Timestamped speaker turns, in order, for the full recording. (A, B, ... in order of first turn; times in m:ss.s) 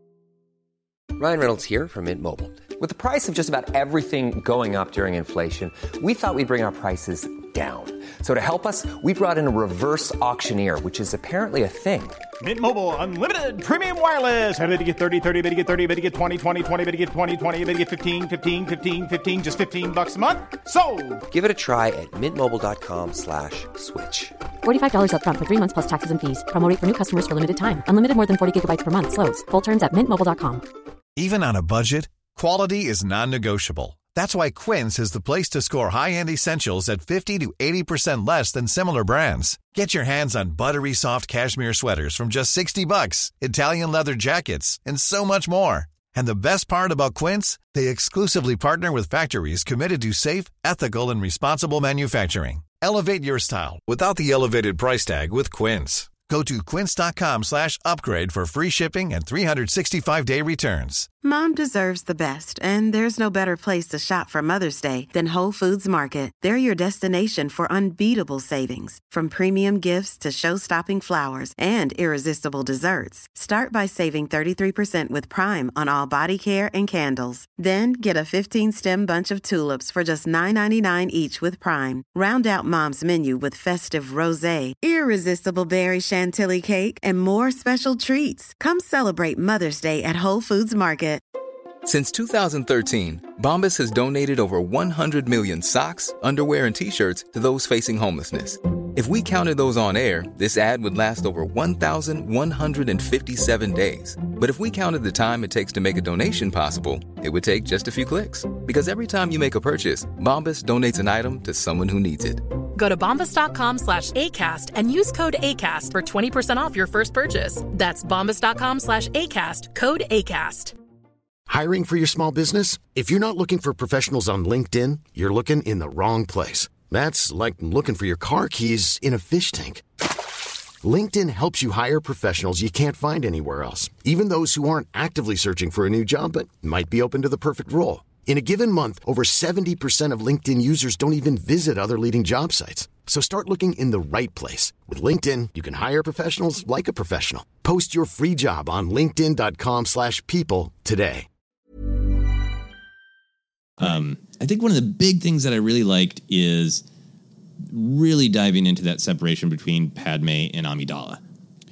0:01.2-0:12.2 A
0:12.4-0:21.2 B
0:21.3-0:24.3 A
0:24.6-0:30.6 C
0:31.2-1:01.1 D
1:01.2-1:31.2 E
1:31.8-1:52.4 F
1:52.8-2:00.8 G
2:01.5-2:09.8 H
2:10.8-2:31.3 H
2:33.8-2:36.8 I
2:37.6-2:41.2 I